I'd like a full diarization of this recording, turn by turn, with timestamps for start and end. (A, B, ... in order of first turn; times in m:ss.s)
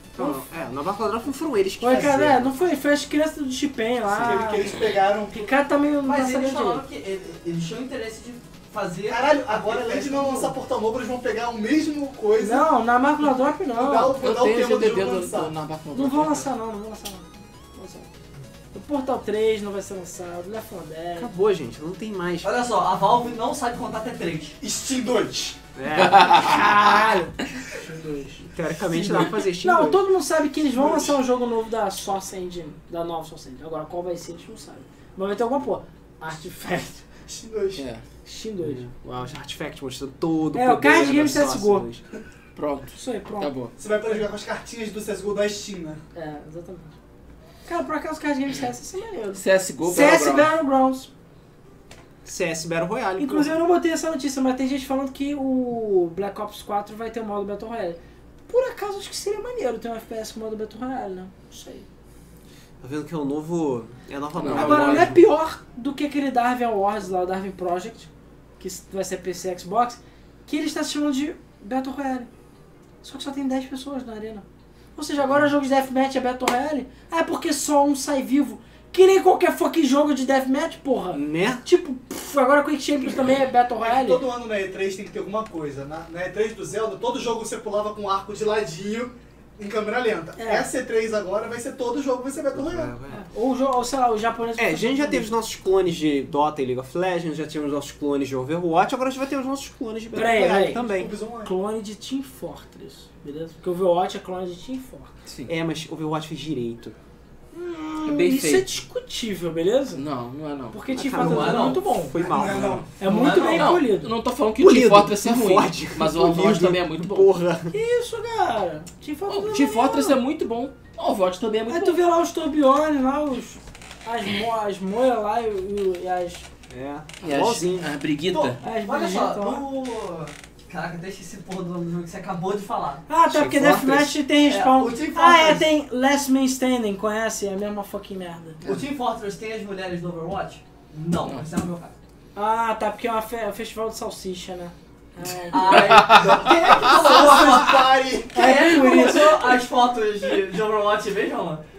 0:00.1-0:02.5 A
0:01.8-0:04.7 B
0:04.1-0:05.5 C
0:05.3-0:06.8 B
0:06.0-0:10.6 D
0:09.0-0:12.7 C
0:12.4-0:14.2 B
0:13.7-0:15.5 C
0:14.2-0:16.5 E
0:15.9-0:18.1 B
0:18.7-0:21.3 B
0:21.2-0:22.5 A
0:22.4-0:24.6 D
0:24.6-0:25.6 C
0:25.8-0:26.6 A
0:25.9-0:26.8 E
0:26.2-0:37.0 B
0:28.5-0:30.0 A
0:30.8-0:31.2 C
0:37.3-0:37.8 C
0:37.8-0:38.0 E
0:38.2-0:38.8 B
0:38.6-0:42.0 A
0:40.5-0:41.9 B
0:42.6-0:43.7 E
0:42.9-0:43.5 B
0:43.8-0:46.0 C
0:46.1-0:46.9 B
0:47.6-0:51.1 B
0:49.3-0:50.5 E
0:52.2-0:53.6 A
0:53.2-1:01.9 B
1:02.8-1:05.2 A
1:04.4-1:05.2 E
1:04.5-1:12.3 B
1:13.0-1:24.2 B
1:21.1-1:21.6 A
1:23.8-1:32.9 C
1:30.4-1:30.7 B
1:32.5-1:33.2 A
1:33.1-1:35.3 B
1:34.6-1:41.1 A
1:40.1-1:40.8 B
1:40.7-1:41.5 C
1:41.4-1:45.2 B
1:45.3-1:45.5 E
1:45.5-1:47.0 A
1:47.5-1:50.0 B
1:48.0-1:48.7 E
1:50.0-1:50.8 E
1:50.7-1:52.2 B
1:50.9-1:52.9 A
1:51.2-1:51.8 D
1:52.2-1:53.0 C
1:53.0-1:54.1 B
1:53.1-1:53.7 D
1:53.2-1:57.3 E
1:54.6-1:57.7 A
1:57.7-2:00.2 B
1:59.3-2:02.0 E
2:01.7-2:06.5 B
2:06.7-2:07.9 A
2:07.2-2:08.6 E
2:08.3-2:13.0 D
2:08.6-2:09.6 B
2:13.1-2:18.6 B
2:13.3-2:14.1 A
2:14.4-2:15.0 D
2:14.8-2:15.6 C
2:18.6-2:21.9 D
2:22.4-2:26.0 B
2:25.5-2:31.6 D
2:25.7-2:26.5 E
2:26.1-2:28.5 C
2:28.3-2:29.5 B